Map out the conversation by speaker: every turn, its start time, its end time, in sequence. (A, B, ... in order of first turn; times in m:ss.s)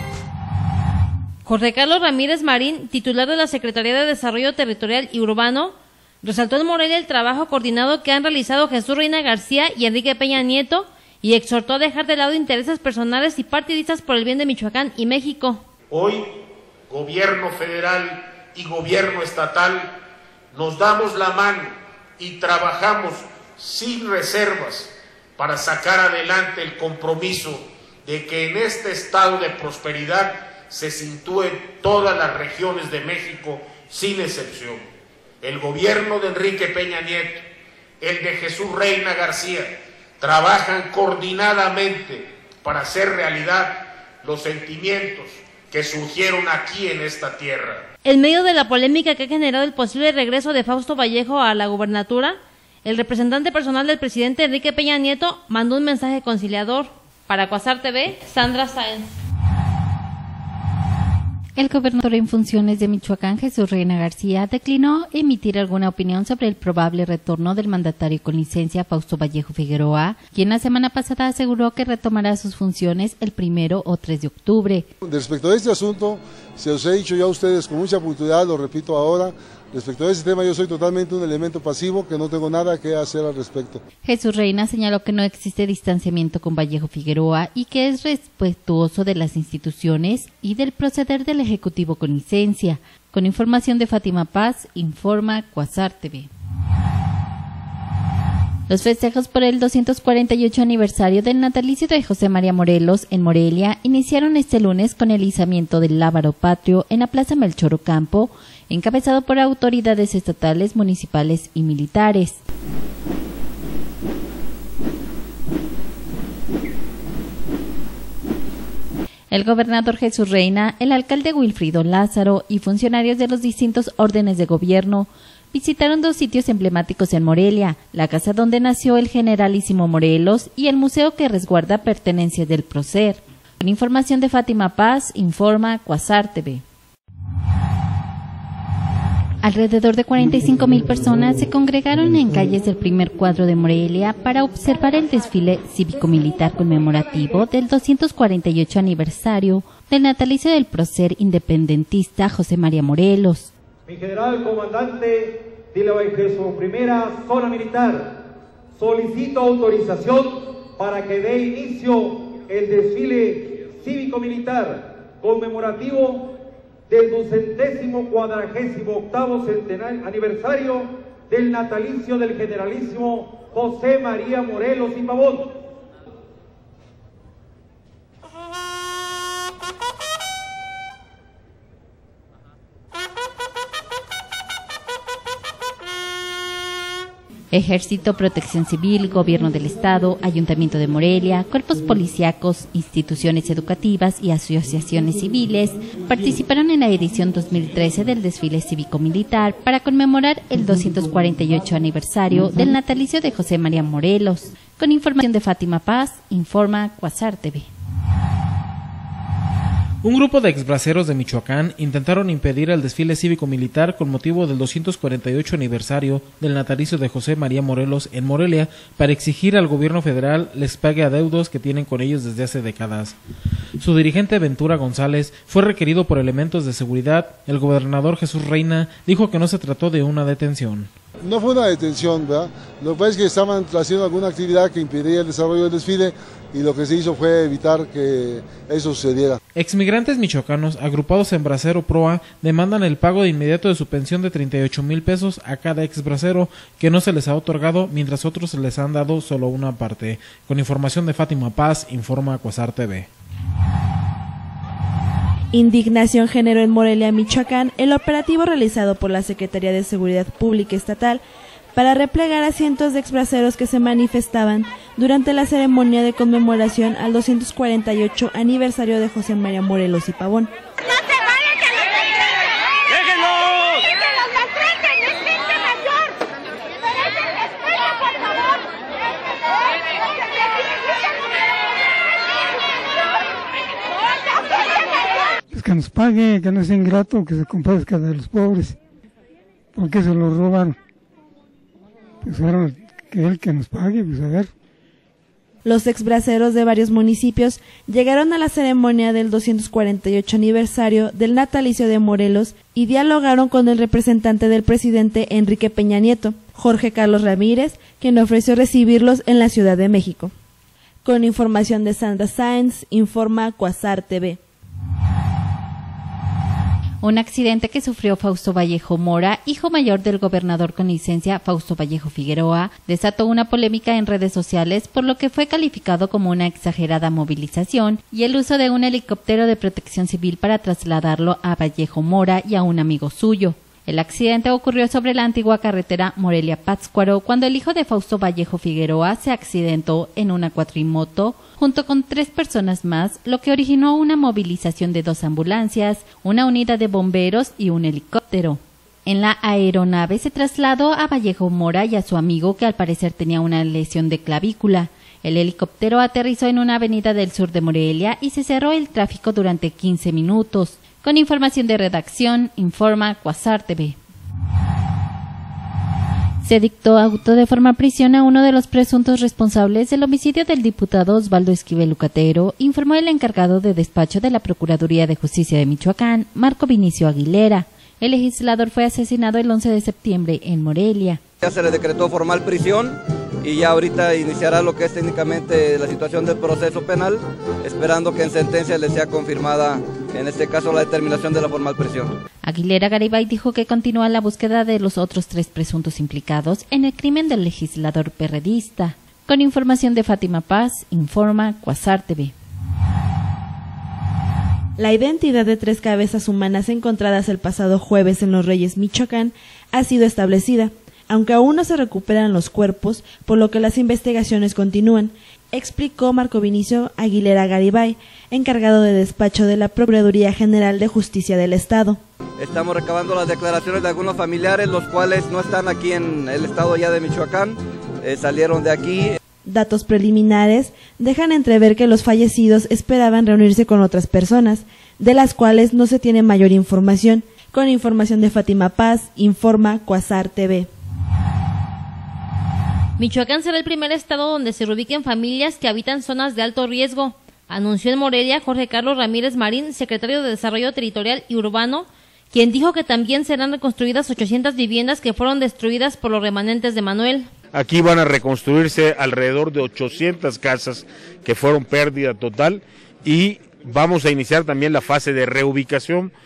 0:01.4-0:15.6 A
0:15.9-0:16.2 B
0:16.9-0:19.8 B
0:20.5-0:34.8 B
0:35.4-0:37.3 B
0:38.0-0:39.7 B
0:40.2-0:47.8 B
0:48.0-0:59.1 A
1:01.6-1:14.9 C
1:15.0-1:23.8 D
1:24.0-1:36.3 C
1:38.7-1:52.4 C
1:59.3-2:16.6 C
2:19.4-2:33.5 C
2:33.9-2:38.2 E
2:38.8-2:46.3 E
2:46.9-2:55.6 E
3:07.5-3:27.7 C
3:30.0-3:43.2 F
3:43.8-3:50.9 F
3:51.2-3:59.4 D
3:59.5-4:13.1 F
4:15.5-4:21.2 G
4:21.7-4:30.5 G
4:45.5-4:48.8 H
4:49.8-4:50.7 H
4:52.3-4:54.5 H
4:55.6-5:10.3 G
5:11.0-5:14.4 G
5:17.0-6:04.0 C
6:06.4-6:21.2 C
6:21.4-6:32.1 I
6:32.4-6:42.3 C
6:44.8-7:02.0 G
7:02.4-7:09.2 I
7:09.4-7:20.7 G
7:23.0-7:37.3 A
7:37.5-7:46.1 B